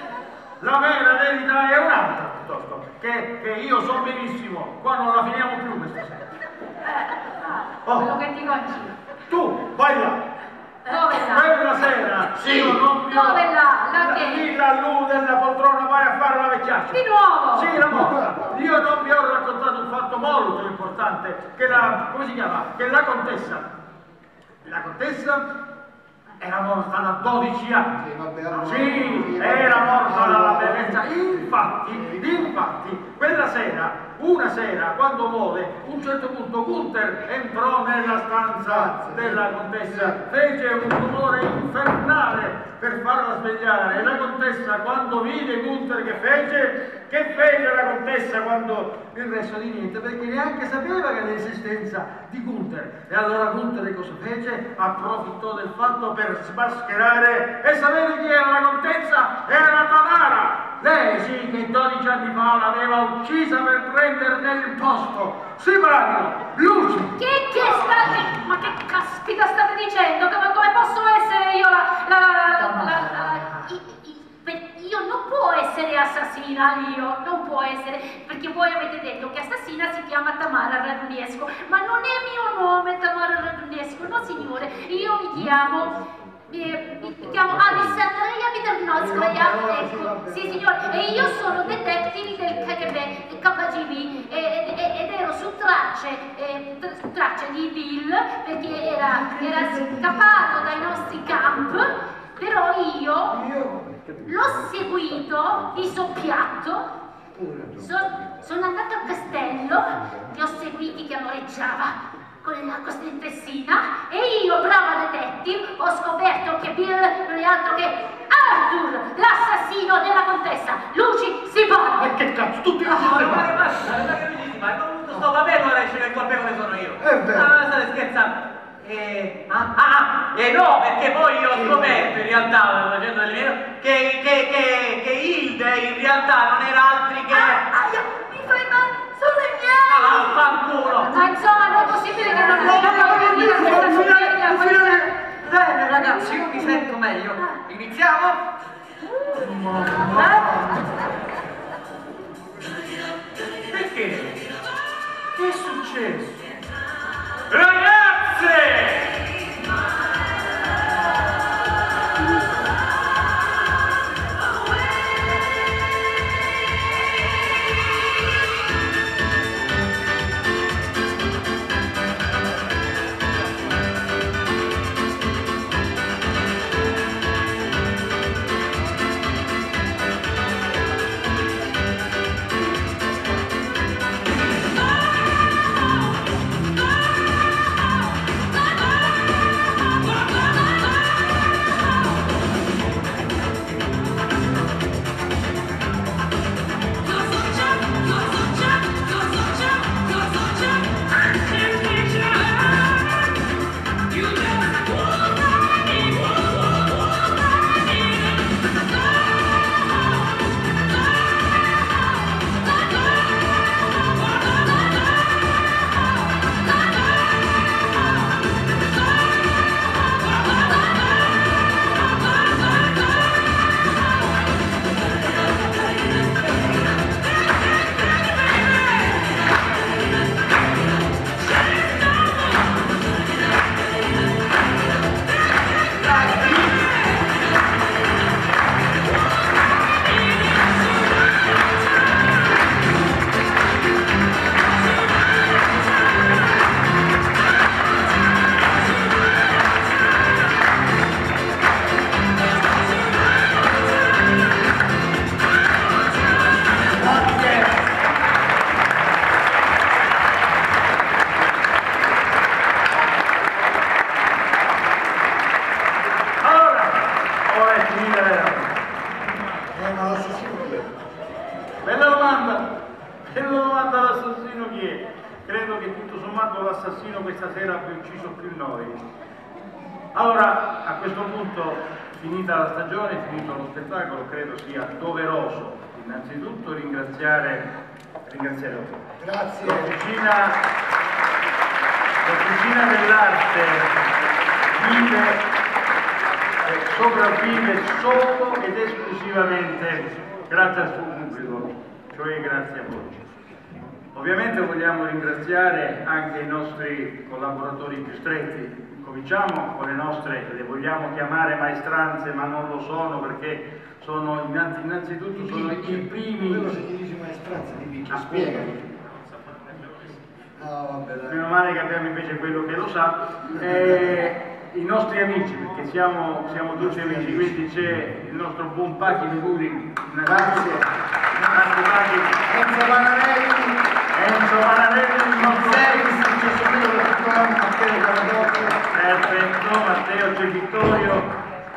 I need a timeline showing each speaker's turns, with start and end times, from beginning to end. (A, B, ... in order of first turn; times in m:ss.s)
0:00.6-0:06.2 A
0:07.1-0:09.0 B
0:07.8-0:08.1 A
0:09.3-0:10.2 A
0:10.9-0:11.4 B
0:11.2-0:23.7 A
0:12.3-0:14.5 B
0:16.9-0:17.8 B
0:17.8-0:18.5 C
0:24.6-0:25.4 A
0:26.4-0:28.0 A
0:28.0-0:32.6 C
0:28.5-1:07.2 A
0:38.6-0:40.2 C
1:07.2-1:43.4 B
1:29.0-1:31.3 C
1:39.0-1:40.5 C
1:43.3-1:43.8 C
1:44.2-1:46.8 B
1:47.4-1:47.8 C
1:47.8-2:02.1 B
2:02.0-2:03.6 C
2:02.9-2:17.7 D
2:07.0-2:07.6 C
2:11.5-2:12.2 C
2:17.4-2:20.4 B
2:19.9-2:21.3 D
2:21.0-2:25.1 B
2:22.2-2:25.1 C
2:25.5-2:28.3 D
2:26.1-2:26.8 C
2:27.7-2:28.3 C
2:29.4-2:30.4 A
2:30.1-2:30.7 C
2:30.1-2:30.6 D
2:33.7-2:34.4 D
2:35.4-2:36.3 A
2:37.5-2:38.7 A
2:37.6-2:39.2 D
3:17.2-3:20.5 B
3:21.7-3:22.5 A
3:24.3-3:24.6 B
3:56.1-3:56.8 C
4:17.0-4:17.6 C
4:26.4-4:28.7 A
4:29.7-4:30.9 C
4:31.8-4:32.7 A
4:33.3-4:39.0 A
4:40.1-4:47.7 A
4:48.2-4:49.0 A
4:49.2-4:49.9 C
4:49.6-4:50.6 A
4:52.2-4:53.9 A
4:54.7-4:55.4 A
4:56.6-5:03.2 A
5:04.1-5:16.8 A
5:15.3-5:18.9 C
5:18.1-5:18.7 A
5:20.6-5:21.4 C
5:21.3-5:32.4 A
5:26.8-5:27.6 C
5:30.2-5:30.9 C
5:31.4-5:31.8 C
5:32.4-5:33.8 C
5:34.1-5:36.1 A
5:35.4-5:38.8 C
5:38.9-5:41.3 A